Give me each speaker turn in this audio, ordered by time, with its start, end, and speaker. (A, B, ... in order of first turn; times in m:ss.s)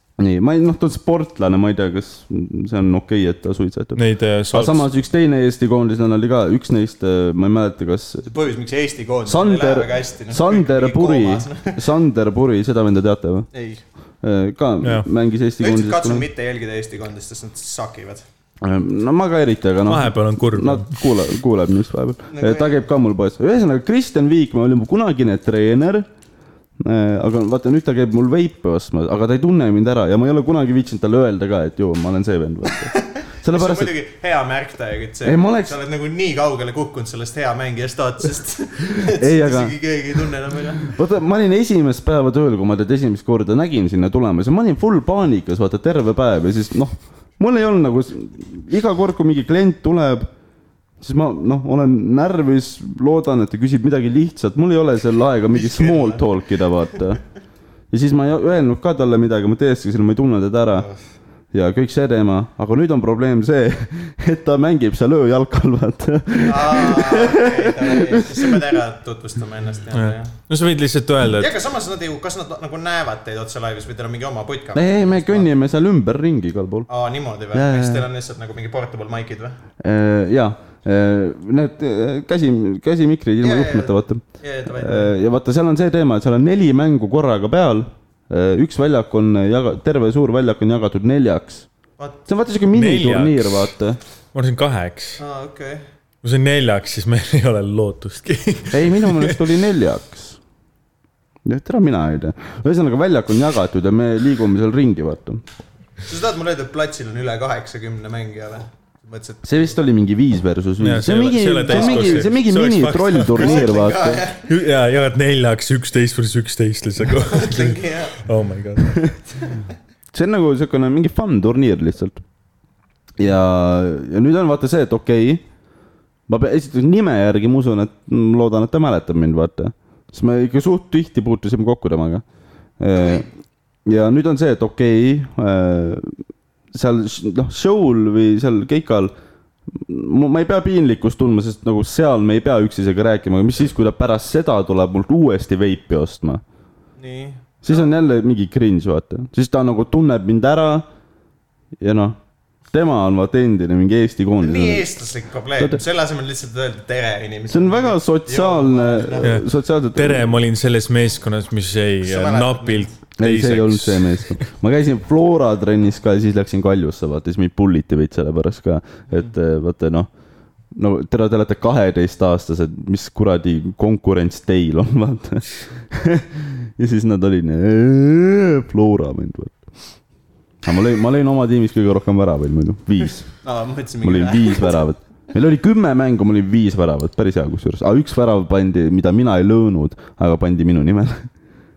0:00.2-0:08.3 A
0:04.0-0:04.9 B
0:08.2-0:11.8 C
0:09.2-0:13.5 A
0:13.5-0:13.8 C
0:14.2-0:16.3 A
0:15.6-0:18.2 C
0:18.6-0:26.1 A
0:19.9-0:21.0 B
0:22.3-0:22.8 C
0:26.8-0:33.9 A
0:32.7-0:40.9 C
0:35.2-0:35.7 A
0:39.2-0:39.8 A
0:40.8-0:50.3 A
0:51.0-0:57.2 A
0:55.5-0:56.4 C
0:57.9-1:00.9 A
1:01.5-1:08.8 A
1:06.4-1:10.3 C
1:09.9-1:11.5 B
1:11.4-1:15.5 C
1:14.7-1:16.9 A
1:16.9-1:19.6 C
1:17.5-1:18.0 A
1:19.8-1:31.6 A
1:23.4-1:25.1 C
1:32.3-1:34.0 A
1:32.7-1:33.7 B
1:34.3-1:35.2 B
1:35.2-1:35.8 C
1:36.2-1:39.4 B
1:38.7-1:40.4 A
1:41.4-1:45.4 A
1:46.1-1:49.8 C
1:49.4-1:54.2 A
1:50.8-1:53.7 B
1:51.7-1:52.3 C
1:53.4-1:54.5 C
1:54.4-1:59.0 B
1:57.2-1:58.2 C
1:59.4-1:59.7 C
2:00.1-2:02.2 A
2:03.2-2:05.4 A
2:06.3-2:12.2 A
2:12.8-2:13.3 A
2:12.9-2:13.2 C
2:13.8-2:16.2 A
2:16.7-2:19.1 A
2:19.7-2:26.4 A
2:27.0-2:27.9 C
2:27.6-2:30.8 A
2:31.8-2:32.2 A
2:32.7-2:34.9 A
2:34.4-2:39.3 C
2:35.6-2:35.8 A
2:37.5-2:40.4 A
2:39.2-2:44.4 B
2:42.0-2:42.9 C
2:43.2-2:50.1 A
2:50.7-2:59.6 A
3:00.6-3:03.3 A
3:03.4-3:04.8 C
3:04.0-3:11.3 A